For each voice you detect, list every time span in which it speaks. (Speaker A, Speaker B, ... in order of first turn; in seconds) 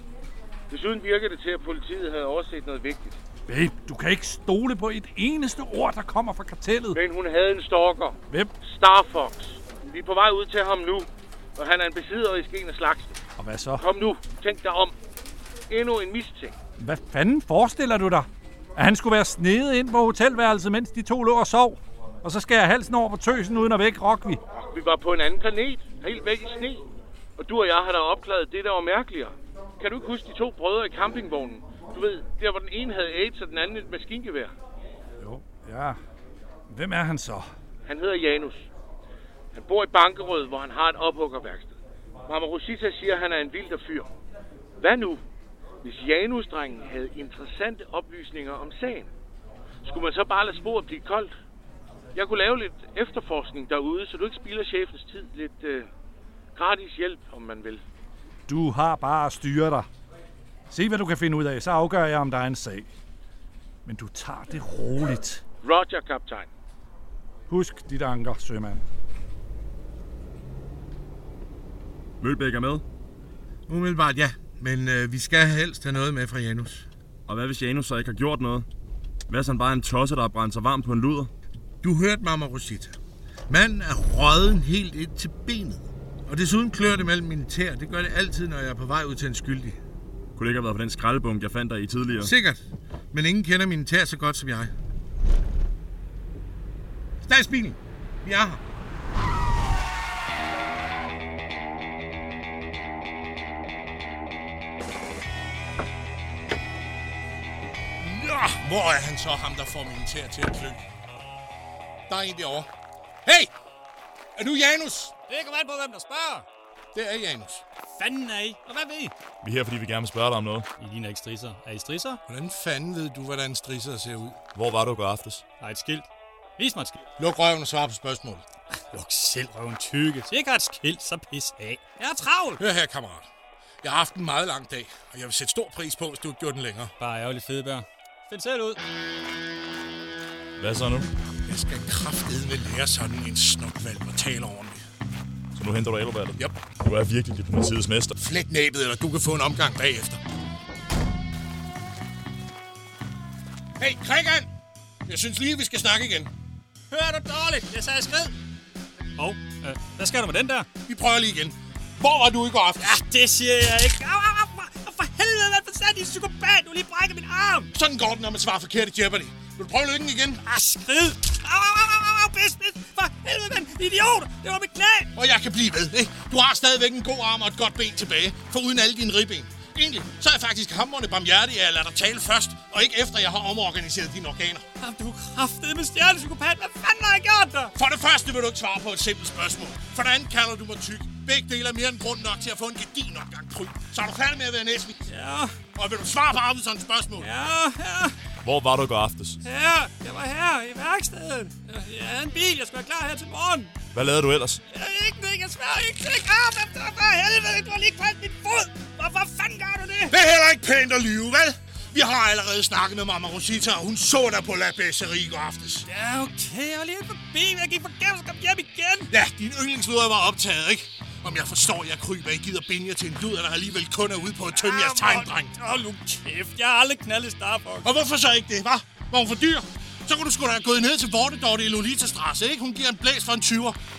Speaker A: 0.7-3.2, 6.9-13.2, 13.8-14.9, 15.7-16.5, 24.5-26.8, 27.4-34.5, 37.9-38.7, 39.5-44.1, 44.8-45.2, 45.8-49.1, 49.8-51.3, 52.1-55.9, 56.5-57.8, 65.6-66.5
Speaker B: 3.5-7.0, 13.4-13.8, 16.8-24.4, 35.2-36.0, 36.7-37.5, 58.5-59.9, 60.7-62.9, 63.8-65.4, 67.5-68.8
Speaker C: 72.2-72.8, 77.3-78.7, 79.3-81.3, 90.3-92.3, 119.4-120.7, 124.5-125.4, 140.6-141.1, 145.5-148.1, 198.4-199.4, 203.9-204.6
Speaker D: 73.7-76.8, 81.8-82.9, 83.5-89.8, 92.2-92.6, 93.1-94.7, 97.2-98.6, 108.0-110.8, 112.1-112.7, 113.2-113.5, 114.4-115.1, 116.9-117.6, 122.3-124.4, 127.2-128.4, 132.6-133.2, 133.8-136.9, 141.4-144.8, 148.2-150.2, 153.8-154.5, 155.1-156.3, 160.9-162.9, 167.7-170.4, 175.1-184.6, 187.8-195.0, 195.7-197.3, 210.1-215.9, 219.1-225.5, 227.8-233.8
Speaker E: 115.3-116.5, 118.0-119.1, 120.8-122.2, 125.6-127.0, 128.9-132.6, 137.0-138.8, 156.9-158.3, 159.2-160.7, 162.8-167.7, 170.4-175.1, 184.8-187.7, 195.1-195.6, 197.2-198.2, 199.4-203.8, 204.7-210.1, 215.9-219.1, 224.5-227.9